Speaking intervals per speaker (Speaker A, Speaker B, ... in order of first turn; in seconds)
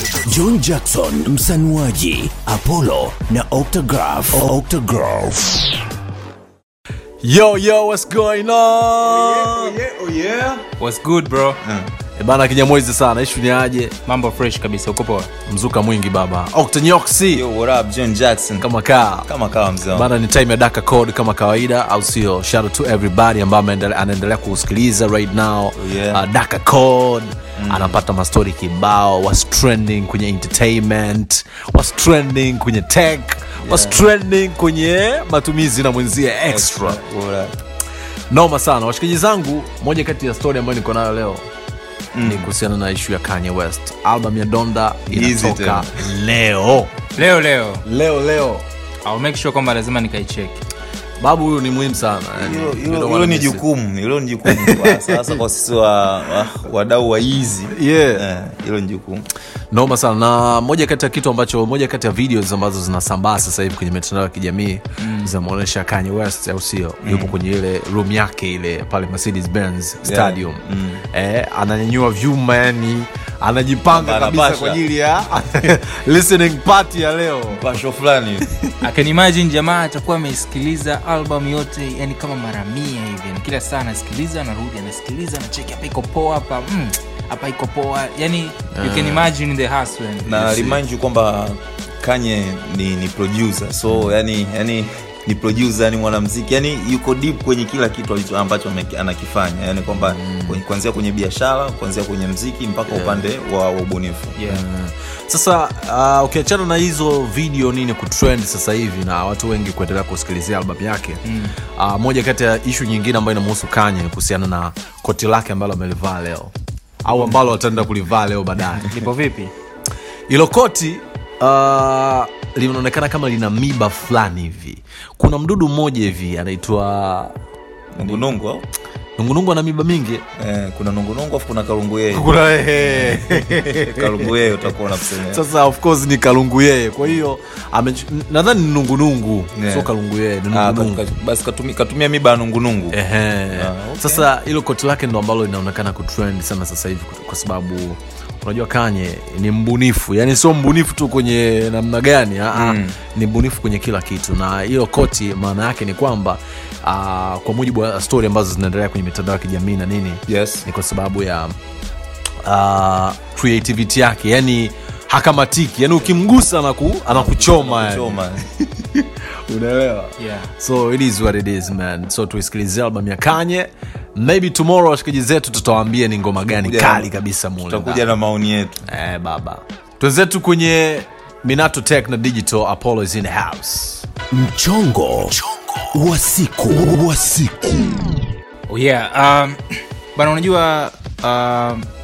Speaker A: 0.2-5.7, 184.3-185.4, 185.9-188.1
Speaker B: 7.2-9.8, 12.2-13.9, 15.5-17.4, 18.6-19.3, 19.9-37.0, 38.3-41.5, 42.2-47.0, 47.8-48.6, 51.2-53.6, 54.5-55.3, 57.7-58.2, 59.7-77.7, 88.7-89.3, 90.4-90.8, 93.9-94.2, 99.8-100.6, 102.9-103.2, 104.5-111.2, 111.8-116.5, 117.0-118.9, 120.3-127.3, 129.2-130.2, 132.1-134.3, 135.3-141.0, 142.9-161.6, 162.4-168.2, 168.8-178.1, 178.9-184.1
Speaker C: 9.0-10.6, 11.6-11.9, 17.3-18.6, 19.3-20.1, 25.8-26.2, 27.6-28.0, 33.6-34.0, 36.5-37.5, 42.1-42.5, 45.1-45.9, 52.4-59.2, 67.0-67.3, 70.0-71.0, 73.9-74.8, 77.5-78.5, 90.2-104.4, 127.9-128.7, 130.4-135.4, 139.5-139.9, 140.5-143.0, 143.5-144.3, 152.5-153.0, 160.3-160.6, 167.1-168.5, 176.5-178.8
Speaker D: 10.8-11.6, 14.1-15.3, 47.1-47.8, 49.0-50.6, 78.8-90.7, 104.4-104.7, 111.2-111.5, 118.8-119.5, 170.2-170.5, 188.7-189.6, 190.1-191.9